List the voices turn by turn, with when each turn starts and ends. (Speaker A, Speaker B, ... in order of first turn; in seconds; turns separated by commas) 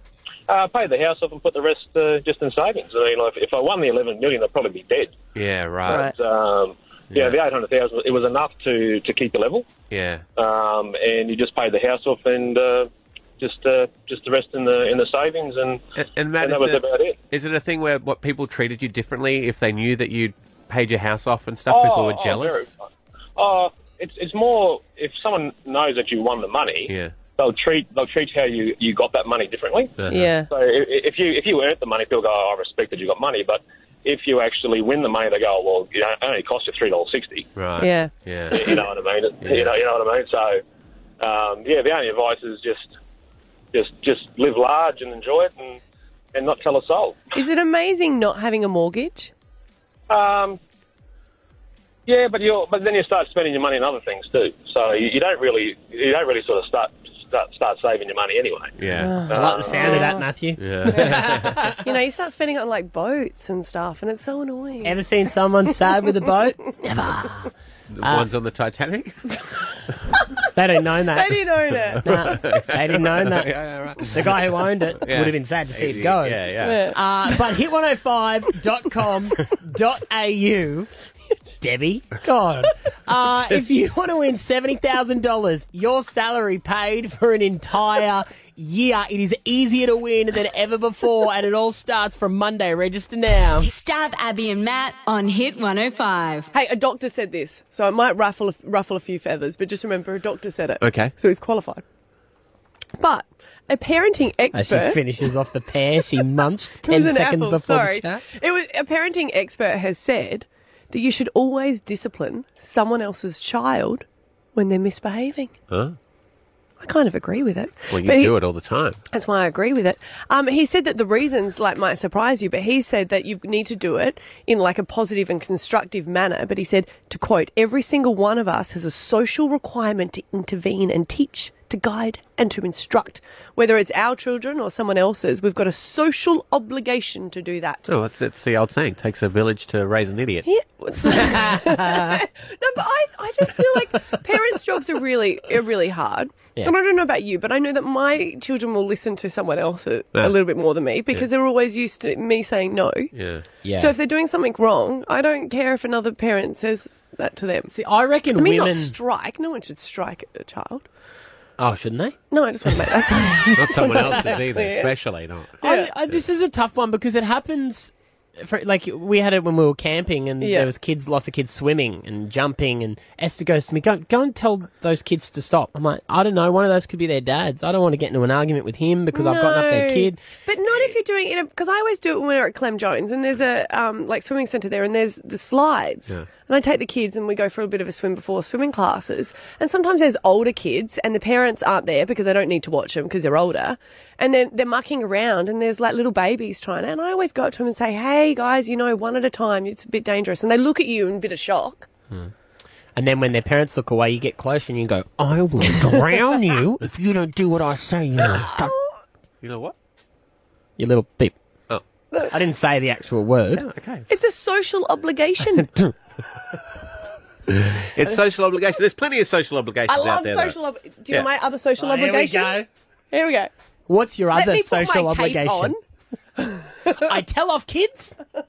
Speaker A: 0.5-5.3, Speaker B: 5.3-6.1, Speaker C: 5.9-6.1, Speaker A: 5.9-9.8, Speaker B: 9.9-10.2, Speaker A: 10.3-15.8, Speaker B: 15.9-22.6, Speaker A: 16.3-17.2, Speaker A: 21.7-22.7, Speaker A: 23.4-37.5, Speaker B: 26.9-27.1, Speaker B: 30.0-30.3, Speaker C: 30.1-30.5, Speaker B: 37.5-38.7, Speaker C: 37.8-38.8, Speaker A: 38.5-40.6, Speaker B: 39.4-39.7, Speaker A: 41.2-42.9, Speaker A: 43.7-45.8, Speaker A: 46.3-47.2, Speaker C: 47.3-49.3, Speaker A: 50.1-50.6, Speaker A: 52.0-58.8, Speaker B: 58.8-59.3, Speaker C: 59.0-60.2, Speaker D: 59.3-61.8, Speaker A: 59.3-59.9, Speaker B: 60.6-61.6, Speaker C: 60.9-65.0, Speaker D: 64.8-67.5, Speaker B: 67.9-69.2, Speaker D: 68.0-68.3, Speaker D: 70.5-71.4, Speaker C: 71.1-72.4, Speaker D: 72.0-80.9, Speaker B: 72.2-74.3, Speaker B: 75.0-76.9, Speaker C: 76.6-77.0, Speaker D: 81.6-93.7, Speaker E: 93.6-96.5, Speaker C: 96.5-101.8, Speaker B: 100.8-101.1, Speaker C: 103.0-105.0, Speaker D: 104.5-108.2, Speaker C: 106.8-115.5, Speaker B: 115.7-116.0, Speaker C: 116.8-118.4, Speaker B: 117.9-119.0, Speaker C: 119.1-137.8, Speaker B: 137.8-140.5, Speaker C: 140.4-153.1, Speaker D: 141.1-142.2, Speaker B: 153.1-153.4, Speaker D: 153.6-153.9, Speaker C: 153.6-157.7, Speaker D: 157.7-158.9, Speaker C: 158.3-160.8, Speaker D: 161.6-162.2, Speaker C: 162.3-164.9, Speaker B: 163.5-165.6, Speaker C: 165.6-165.9, Speaker D: 165.6-180.2, Speaker C: 170.4-170.7, Speaker C: 179.1-201.9, Speaker D: 202.9-208.7, Speaker C: 208.3-208.8, Speaker B: 209.4-209.7, Speaker D: 210.8-211.4, Speaker D: 212.3-213.6, Speaker B: 213.5-214.1, Speaker C: 214.1-215.7, Speaker B: 217.5-220.6, Speaker C: 219.9-223.5, Speaker D: 221.8-222.7, Speaker D: 223.9-225.7, Speaker C: 224.3-225.8, Speaker C: 226.4-227.1, Speaker D: 227.0-228.2